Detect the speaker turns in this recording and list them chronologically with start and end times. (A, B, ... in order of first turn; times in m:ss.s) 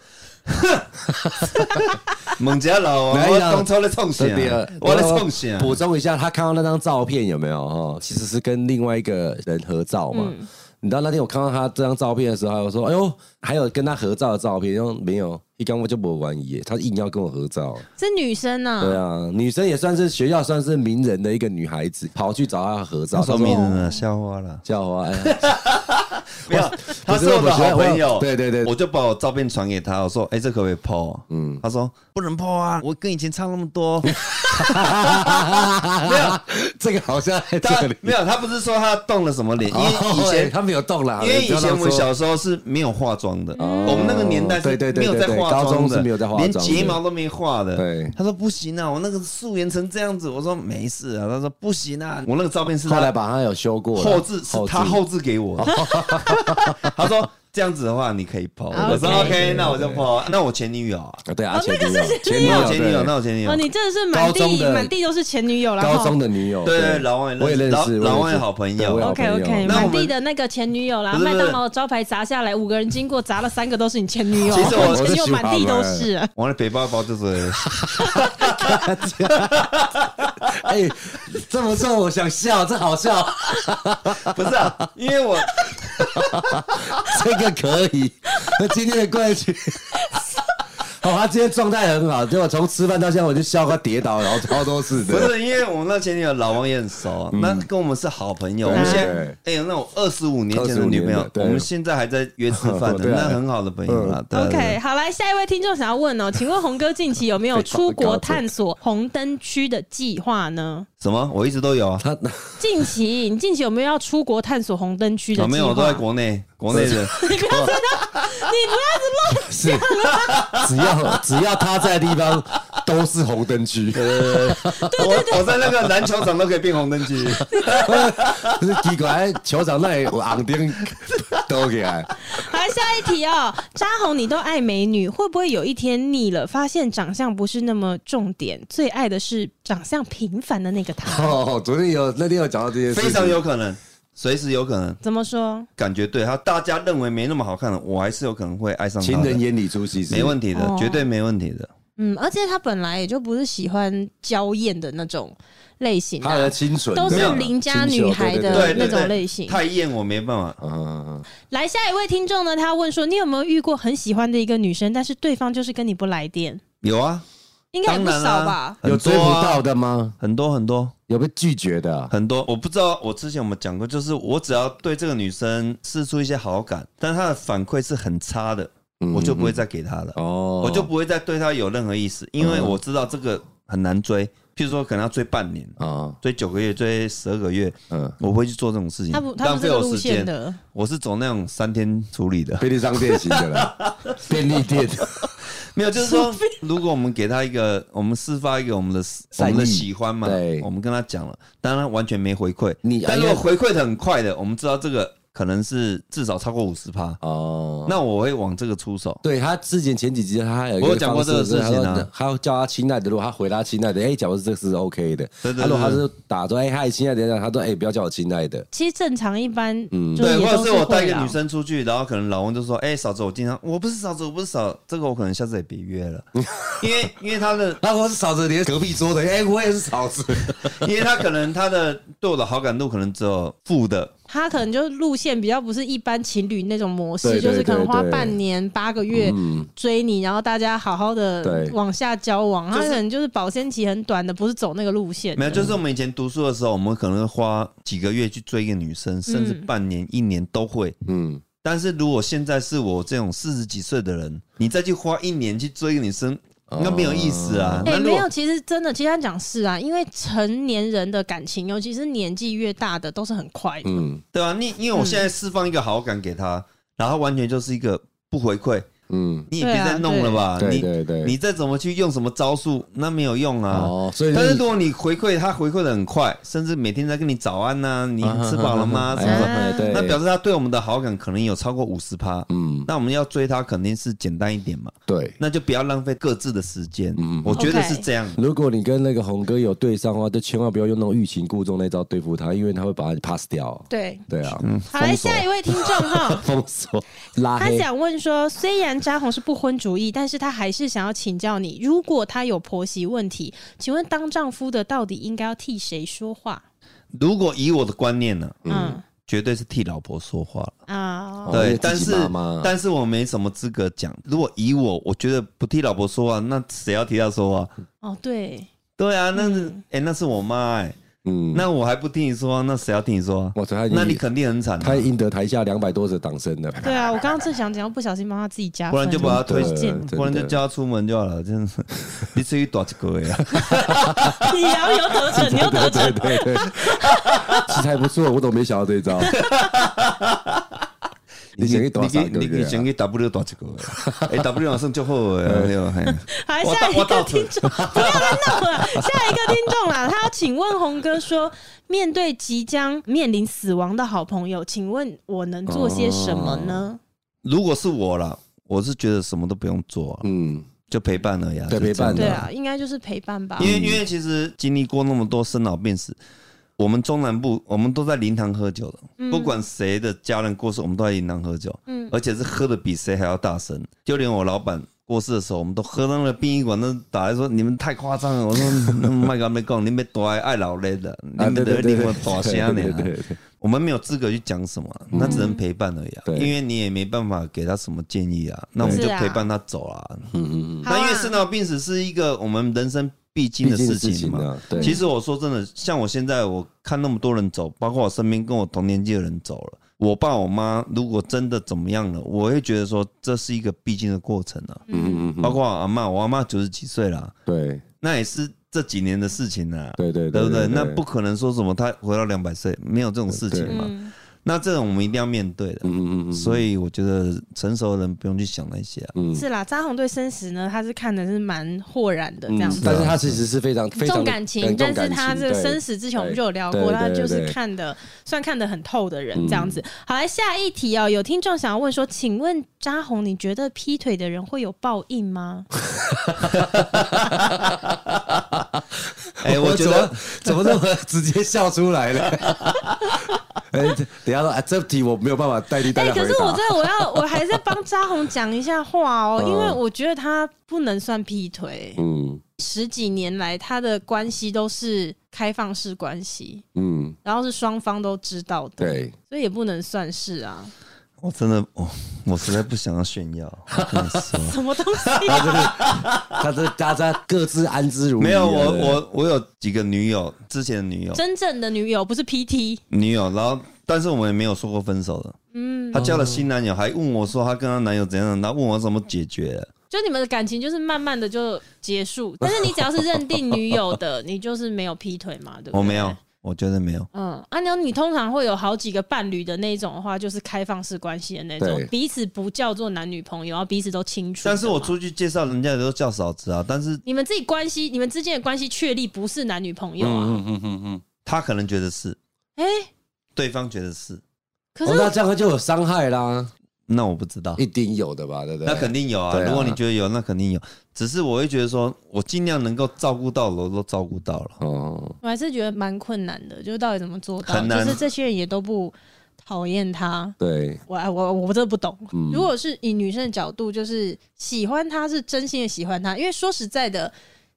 0:00.5-0:00.8 A
0:01.0-0:01.8 B
0:01.5-0:05.8 A
0:03.1-0:17.8 B
0:10.1-0:10.5 C
0:18.0-0:19.0 C
0:18.8-0:23.7 B
0:23.1-0:24.6 A
0:23.4-0:24.0 C
0:24.6-0:25.4 B
0:25.2-0:36.4 A
0:26.5-0:28.7 B
0:31.3-0:31.6 B
0:34.0-0:38.2 B
0:37.6-0:40.5 A
0:39.7-0:42.1 B
0:41.2-0:53.1 A
0:43.6-0:44.1 C
0:43.6-0:47.0 B
0:47.8-0:48.1 B
0:52.8-0:55.0 B
0:53.9-0:55.8 A
0:55.6-0:56.9 B
0:55.7-0:56.9 C
0:56.5-1:01.2 A
0:58.7-0:59.4 C
0:58.8-1:00.1 B
1:01.2-1:03.1 B
1:01.5-1:02.7 C
1:02.4-1:03.6 A
1:03.4-1:06.2 C
1:04.1-1:04.9 B
1:05.8-1:09.9 B
1:06.6-1:09.1 A
1:09.0-1:16.3 C
1:09.6-1:10.1 A
1:11.1-1:11.6 A
1:14.4-1:16.1 B
1:14.4-1:15.1 A
1:16.4-1:20.7 A
1:17.6-1:19.7 B
1:20.4-1:24.7 B
1:24.2-1:26.8 A
1:26.0-1:30.0 B
1:30.0-1:30.5 C
1:31.0-1:35.3 B
1:35.0-1:44.8 A
1:37.3-1:37.7 B
1:38.6-1:39.4 B
1:38.7-1:39.2 C
1:40.5-1:41.7 B
1:42.5-1:44.2 B
1:44.3-1:50.9 C
1:47.5-1:48.4 B
1:51.0-1:52.0 A
1:52.0-1:52.7 B
1:52.6-1:56.0 C
1:55.4-1:57.2 A
1:56.7-1:58.2 B
1:56.8-2:00.6 C
1:59.3-1:59.9 B
2:00.2-2:01.2 A
2:00.5-2:05.0 B
2:03.9-2:08.6 A
2:04.7-2:05.6 C
2:05.8-2:06.1 B
2:07.4-2:08.0 C
2:07.6-2:12.1 B
2:12.2-2:21.4 C
2:21.0-2:23.4 B
2:22.9-2:25.0 A
2:25.0-2:25.7 C
2:25.8-2:29.4 A
2:29.0-2:30.4 B
2:30.1-2:31.7 A
2:30.5-2:31.1 C
2:32.0-2:39.6 C
2:36.2-2:39.1 B
2:37.1-2:37.4 A
2:38.5-2:40.6 A
2:40.6-2:41.2 B
2:41.5-2:46.6 C
2:46.8-2:47.2 A
2:47.7-2:48.8 C
2:47.8-2:49.6 A
2:48.8-2:50.2 B
2:50.2-2:50.9 A
2:51.1-2:52.1 B
2:52.1-3:14.4 A
2:59.0-2:59.6 B
3:00.2-3:00.9 B
3:02.4-3:02.8 B
3:05.8-3:06.2 B
3:07.9-3:08.2 B
3:09.1-3:10.6 C
3:12.6-3:15.2 B
3:15.4-3:27.2 A
3:16.0-3:16.6 C
3:19.3-3:20.7 B
3:22.8-3:23.4 B
3:27.2-3:28.0 B
3:27.8-3:29.2 A
3:29.2-3:38.6 B
3:30.8-3:32.1 A
3:35.4-3:36.0 A
3:38.7-3:41.4 C
3:39.9-3:40.2 B
3:40.2-3:46.3 A
3:46.4-3:47.1 B
3:46.8-3:47.8 A
3:47.8-3:50.9 B
3:50.6-3:54.1 A
3:54.3-4:05.7 C
3:57.2-3:58.4 B
3:59.1-3:59.7 B
4:01.4-4:01.8 B
4:02.7-4:03.0 A
4:05.4-4:11.0 A
4:09.3-4:09.7 C
4:11.0-4:11.4 B
4:11.6-4:18.3 A
4:16.7-4:17.9 B
4:17.8-4:24.0 C
4:23.8-4:24.2 B
4:24.3-4:28.9 A
4:24.9-4:25.3 C
4:29.1-4:29.5 B
4:29.5-4:48.4 A
4:29.6-4:30.4 C
4:30.6-4:31.4 B
4:33.7-4:34.6 B
4:38.2-4:40.2 B
4:39.2-4:40.0 C
4:42.5-4:42.9 B
4:45.1-4:45.4 B
4:47.2-4:47.8 B
4:47.5-4:48.0 C
4:48.4-4:54.6 B
4:53.9-4:54.2 C
4:54.6-4:55.4 A
4:54.9-4:56.4 C
4:56.3-4:57.9 B
4:57.6-5:06.6 C
5:07.2-5:10.7 A
5:08.6-5:09.0 B
5:08.7-5:09.0 C
5:10.9-5:11.6 C
5:11.5-5:12.7 B
5:11.5-5:17.7 A
5:18.0-5:18.7 C
5:19.0-5:21.0 A
5:19.4-5:19.8 C
5:21.2-5:21.7 B
5:21.5-5:25.1 A
5:23.5-5:24.2 B
5:24.8-5:27.1 B
5:26.8-5:30.0 C
5:28.9-5:34.4 A
5:29.2-5:30.6 B
5:33.6-5:37.4 C
5:33.9-5:34.3 B
5:35.3-5:39.3 B
5:37.1-5:37.7 A
5:39.3-5:40.6 A
5:39.3-5:39.7 C
5:41.6-5:49.0 A
5:41.6-5:42.8 B
5:43.9-5:44.4 B
5:45.4-5:45.7 B
5:46.2-5:57.0 C
5:55.6-5:56.9 B
5:57.4-6:00.3 A
6:00.2-6:00.7 B
6:00.9-6:02.4 A
6:01.7-6:02.4 B
6:02.2-6:03.7 C
6:03.6-6:04.0 B
6:03.6-6:06.2 A
6:06.8-6:30.3 A
6:09.2-6:09.6 C
6:11.9-6:12.1 C
6:18.8-6:19.1 B
6:21.4-6:23.4 B
6:25.1-6:25.5 B
6:25.2-6:25.6 C
6:26.2-6:26.5 B
6:28.8-6:29.0 B
6:28.9-6:29.5 C
6:30.3-6:30.9 B
6:30.8-6:31.4 C
6:30.8-6:44.8 A
6:33.6-6:35.0 B
6:34.8-6:35.0 C
6:44.9-6:45.3 C
6:44.9-6:45.6 B
6:45.4-6:47.3 A
6:47.4-6:47.8 B
6:48.0-6:53.9 A
6:50.0-6:51.0 B
6:53.3-6:53.8 B
6:53.7-6:54.1 C
6:54.4-6:59.1 A
6:55.8-6:56.7 B
6:59.1-6:59.4 B
6:59.3-7:02.8 C
7:02.5-7:07.6 B
7:02.8-7:03.4 A
7:03.9-7:15.7 C
7:09.3-7:09.8 B
7:15.8-7:17.6 B
7:16.8-7:18.4 A
7:19.3-7:23.1 B
7:19.4-7:20.7 A
7:22.4-7:22.7 A
7:23.7-7:26.9 B
7:25.8-7:32.0 C
7:29.4-7:29.8 B
7:32.0-7:32.4 B
7:32.6-7:36.6 C
7:36.7-7:37.2 B
7:37.2-7:40.7 C
7:38.8-7:39.1 B
7:41.2-7:46.4 A
7:43.8-7:44.2 B
7:44.4-7:45.6 C
7:45.2-7:49.0 B
7:48.2-7:51.2 A
7:51.1-7:52.8 C
7:52.9-7:55.4 A
7:55.5-7:56.0 C
7:55.9-7:59.7 A
7:55.9-7:56.4 B
7:59.9-8:06.2 C
8:02.4-8:02.7 B
8:05.7-8:07.1 A
8:07.1-8:14.9 C
8:11.6-8:11.9 B
8:14.4-8:17.0 A
8:17.0-8:20.4 C
8:20.0-8:21.0 B
8:21.2-8:22.2 A
8:22.6-8:22.9 C
8:23.3-8:24.2 A
8:24.7-8:25.1 C
8:24.8-8:26.5 B
8:26.9-8:27.6 A
8:27.6-8:29.8 B
8:28.6-8:34.6 A
8:34.6-8:35.2 B
8:35.2-8:40.3 C
8:37.4-8:38.0 A
8:40.4-8:40.8 B
8:40.9-8:47.1 C
8:42.1-8:42.5 B